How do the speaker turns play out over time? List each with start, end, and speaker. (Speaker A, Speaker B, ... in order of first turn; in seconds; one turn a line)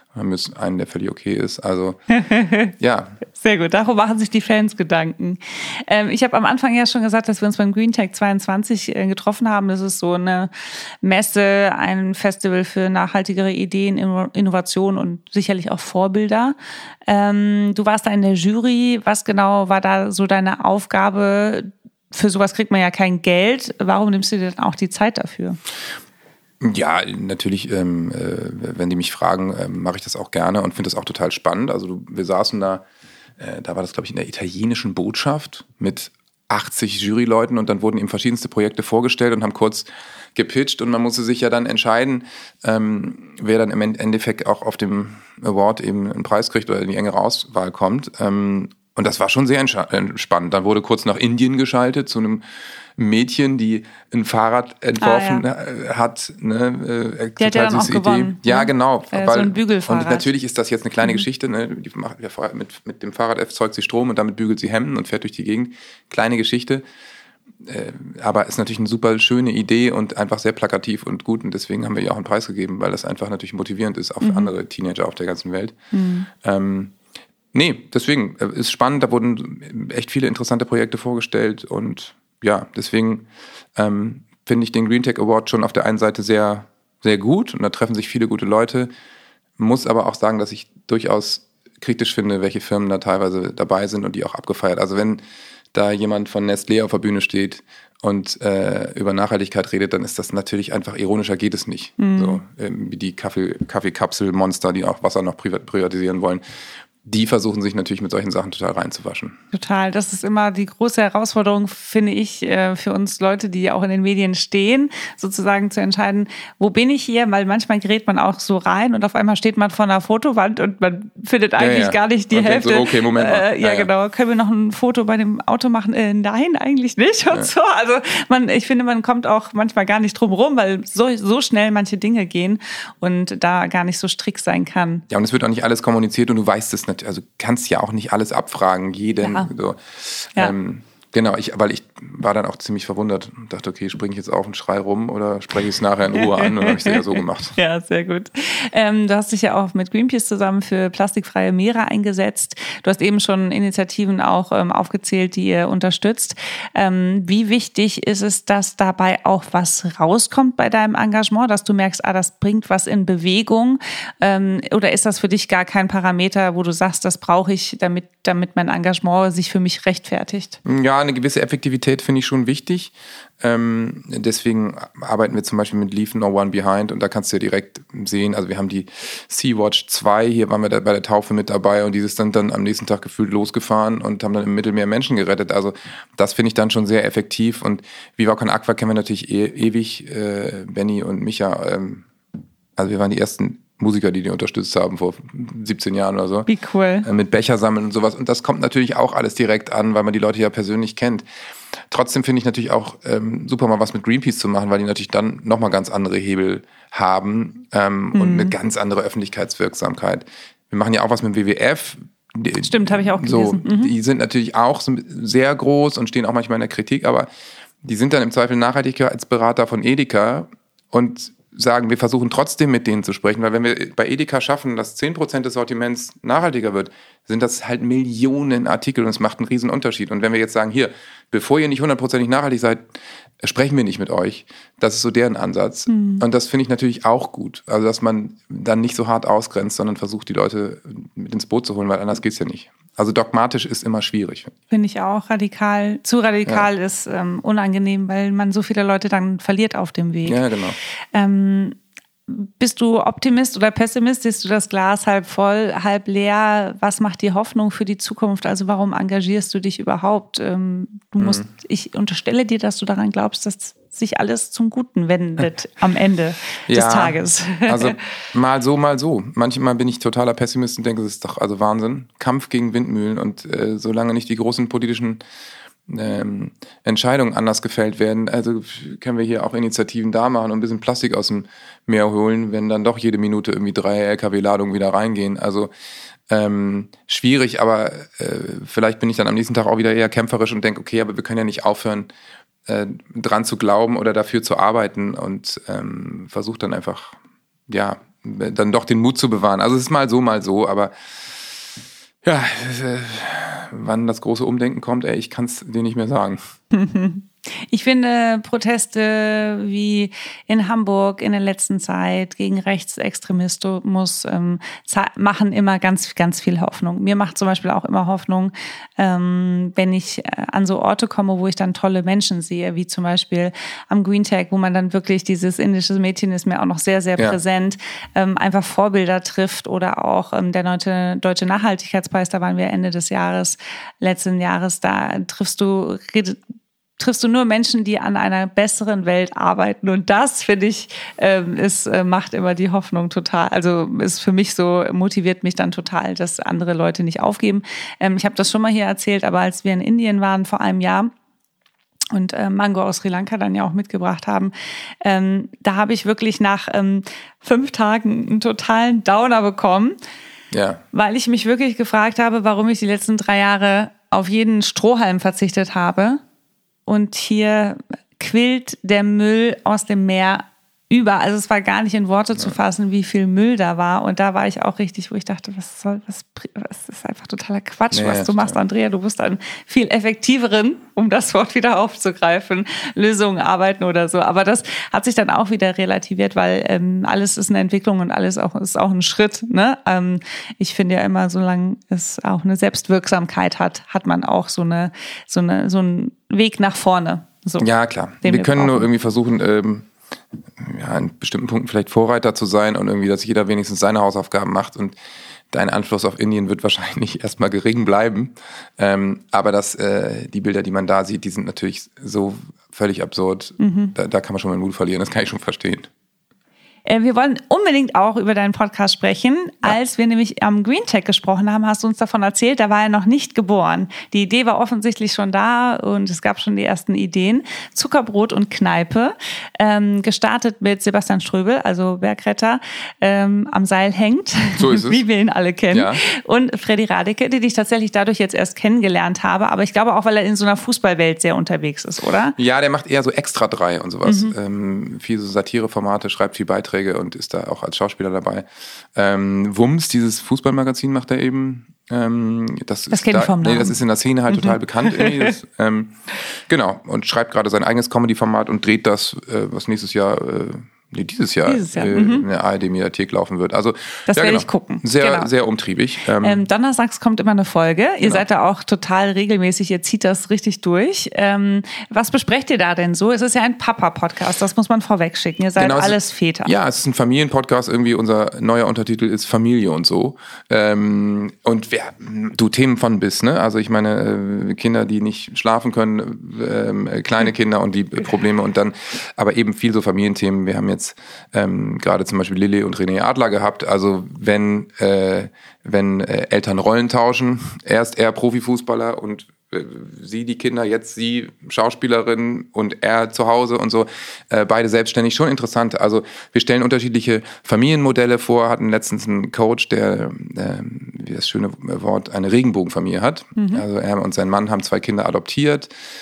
Speaker A: 0.1-2.0
Speaker B: 2.1-2.7
Speaker A: 2.8-3.2
Speaker B: 3.3-25.6
Speaker A: 26.6-32.8
Speaker A: 33.4-52.4
Speaker A: 53.0-66.8
Speaker B: 55.0-55.4
Speaker B: 57.4-60.2
Speaker A: 67.6-75.7
Speaker B: 74.2-74.5
Speaker B: 75.9-76.3
Speaker A: 76.4-76.9
Speaker A: 77.5-83.2
Speaker A: 83.8-88.9
Speaker A: 89.6-95.2
Speaker A: 95.7-106.4
Speaker B: 102.0-102.4
Speaker A: 107.0-109.3
Speaker B: 109.5-135.0
Speaker A: 121.6-123.9
Speaker A: 135.1-147.6
Speaker B: 139.2-139.5
Speaker B: 146.2-170.6
Speaker A: 170.6-192.0
Speaker A: 192.8-196.5
Speaker B: 196.5-197.1
Speaker A: 197.0-201.2
Speaker A: 201.9-217.3
Speaker B: 208.1-208.5
Speaker B: 212.6-213.9
Speaker A: 217.8-232.9
Speaker A: 233.4-244.5
Speaker B: 235.9-236.2
Speaker B: 244.7-250.4
Speaker A: 250.2-250.8
Speaker B: 251.1-251.8
Speaker B: 252.3-267.9
Speaker A: 261.2-261.5
Speaker A: 266.7-275.2
Speaker A: 275.9-285.7
Speaker A: 286.3-292.1
Speaker A: 292.7-297.2
Speaker A: 297.7-300.9
Speaker A: 302.2-306.4
Speaker B: 306.7-336.4
Speaker B: 337.0-351.1
Speaker B: 352.1-360.0
Speaker A: 360.5-360.8
Speaker B: 360.9-366.2
Speaker B: 366.9-397.7
Speaker A: 377.9-378.6
Speaker A: 397.6-399.9
Speaker B: 398.2-398.9
Speaker A: 400.6-404.9
Speaker A: 405.5-415.9
Speaker B: 413.6-413.9
Speaker B: 416.9-442.4
Speaker A: 434.6-435.0
Speaker A: 435.7-436.0
Speaker A: 442.4-466.4
Speaker B: 444.0-444.3
Speaker B: 452.9-455.2
Speaker B: 461.4-462.2
Speaker B: 464.1-465.3
Speaker B: 466.2-476.5
Speaker A: 475.6-515.7
Speaker B: 513.4-513.6